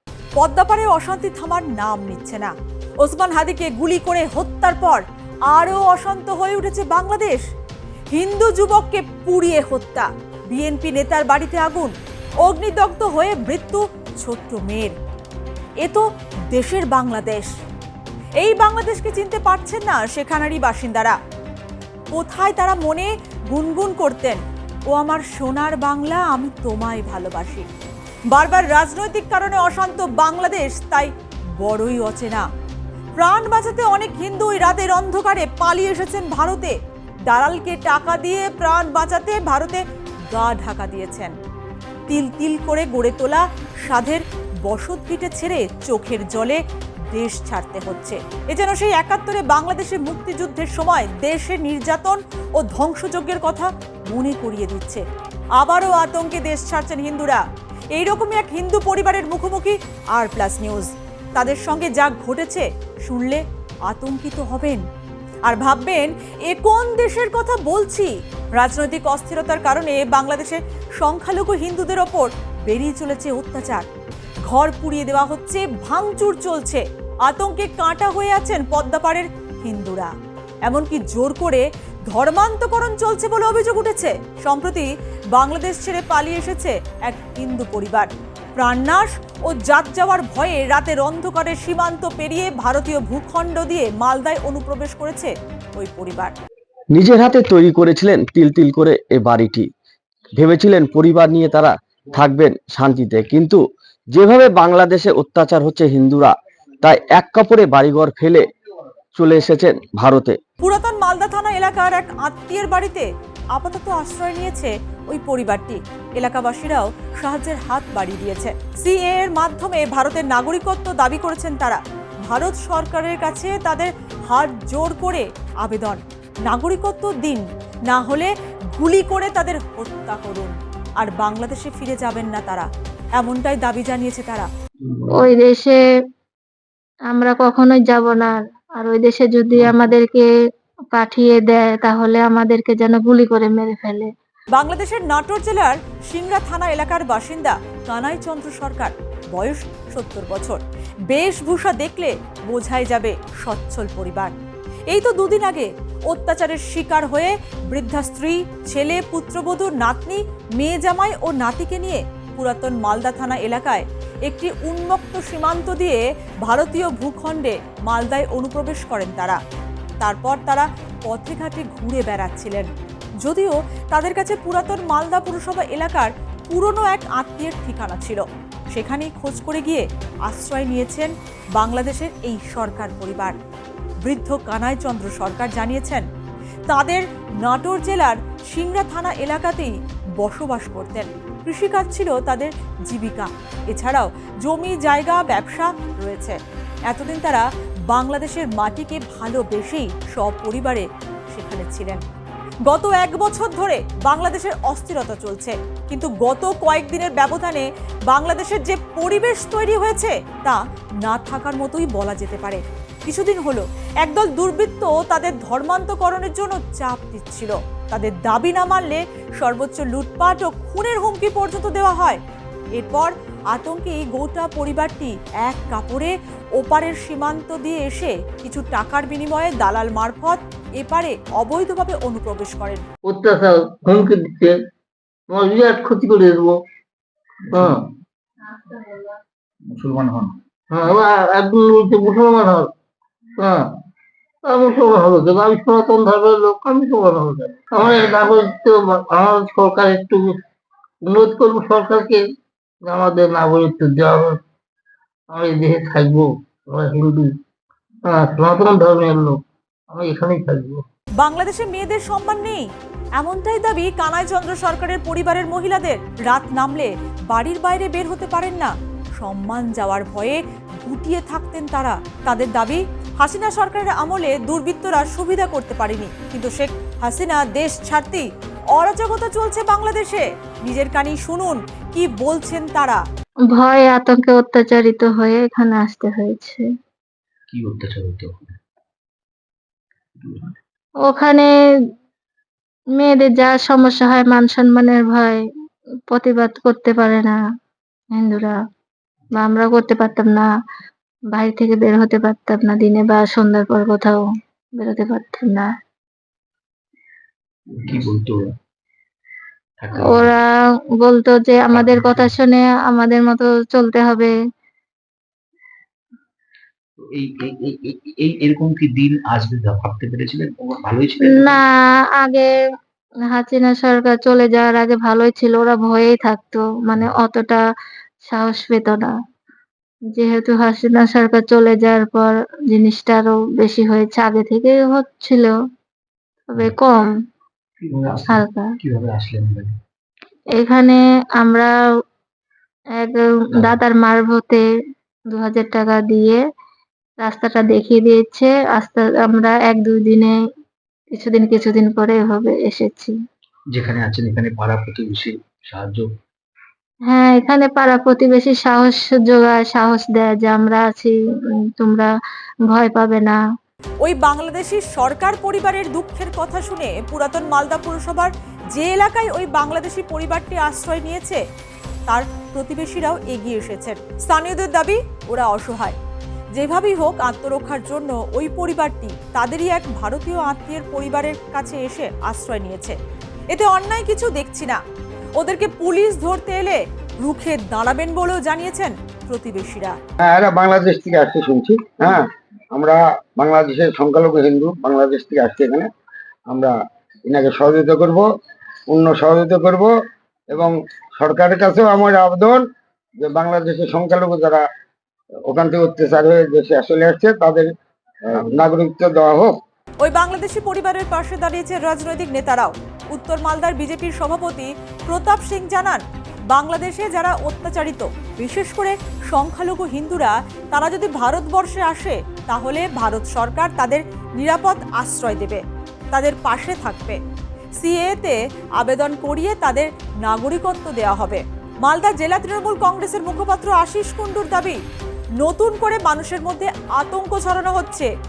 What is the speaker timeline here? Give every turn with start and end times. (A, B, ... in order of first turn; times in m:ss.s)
0:00.4-0:02.5 A
0:03.0-0:07.4 A
0:08.1-0:14.9 A
0:15.8-0:17.5 A
0:18.4-0:21.2 A
0:22.1-0:27.6 A
0:28.3-0:32.4 A
0:33.1-0:36.7 A
0:37.3-0:41.3 A
0:42.1-0:46.6 A
0:47.1-0:55.0 A
0:55.6-0:57.4 A
0:57.9-1:04.8 A
1:05.5-1:13.8 A
1:14.5-1:20.1 A
1:20.6-1:36.3 A
1:36.9-1:39.7 B
1:40.4-1:43.6 B
1:44.1-1:48.4 B
1:49.2-1:50.4 B
1:50.6-2:14.5 A
2:15.0-2:15.3 C
2:15.2-2:15.8 D
2:17.1-2:20.2 D
2:20.9-2:24.1 D
2:24.5-2:34.3 A
2:34.9-2:49.4 A
2:50.0-2:52.7 A
2:53.2-3:03.4 A
3:04.0-3:06.0 A
3:06.7-3:16.4 A
3:16.9-3:22.0 A
3:22.7-3:42.2 A
3:42.8-3:52.8 A
3:53.0-3:54.6 E
3:55.3-3:56.6 E
3:57.5-3:57.9 E
4:00.7-4:02.7 E
4:03.4-4:03.7 E
4:04.4-4:10.4 E
4:11.0-4:12.2 E
4:12.8-4:14.4 E
4:15.3-4:17.4 E
4:18.0-4:20.8 E
4:21.2-4:22.6 A
4:23.2-4:43.0 A
4:43.6-4:46.6 D
4:47.5-4:48.5 C
4:51.1-4:51.5 D
4:53.0-4:55.4 D
4:56.1-4:57.4 D
4:58.2-4:58.6 D
4:59.4-5:00.5 D
5:01.4-5:04.2 D
5:04.8-5:05.7 D
5:07.8-5:08.5 C
5:09.8-5:10.3 C
5:11.0-5:14.3 D
5:11.7-5:12.4 C
5:17.1-5:21.6 C
5:21.3-5:22.5 D
5:23.3-5:27.6 D
5:28.2-5:29.1 D
5:30.1-5:35.6 D
5:36.5-5:37.1 D
5:37.8-5:39.7 C
5:40.5-5:41.7 D
5:43.0-5:44.6 D
5:43.5-5:43.8 C
5:45.3-5:46.4 D
5:47.2-5:50.3 D
5:51.1-5:53.1 D
5:53.7-5:56.1 C
5:57.1-6:01.2 D
6:01.8-6:02.1 D
6:02.7-6:03.4 D
6:04.0-6:11.4 A
6:12.1-6:16.0 A
6:16.5-6:23.0 A
6:23.5-6:24.8 A
6:25.4-6:30.0 A
6:30.2-6:35.9 F
6:36.5-6:36.7 F
6:37.3-6:38.2 F
6:38.9-6:39.9 F
6:40.5-6:42.6 F
6:43.2-6:44.6 F
6:45.5-6:47.7 F
6:48.3-6:49.6 F
6:50.0-7:05.6 A
7:06.1-7:07.2 A
7:07.8-7:14.8 A
7:15.4-7:18.1 A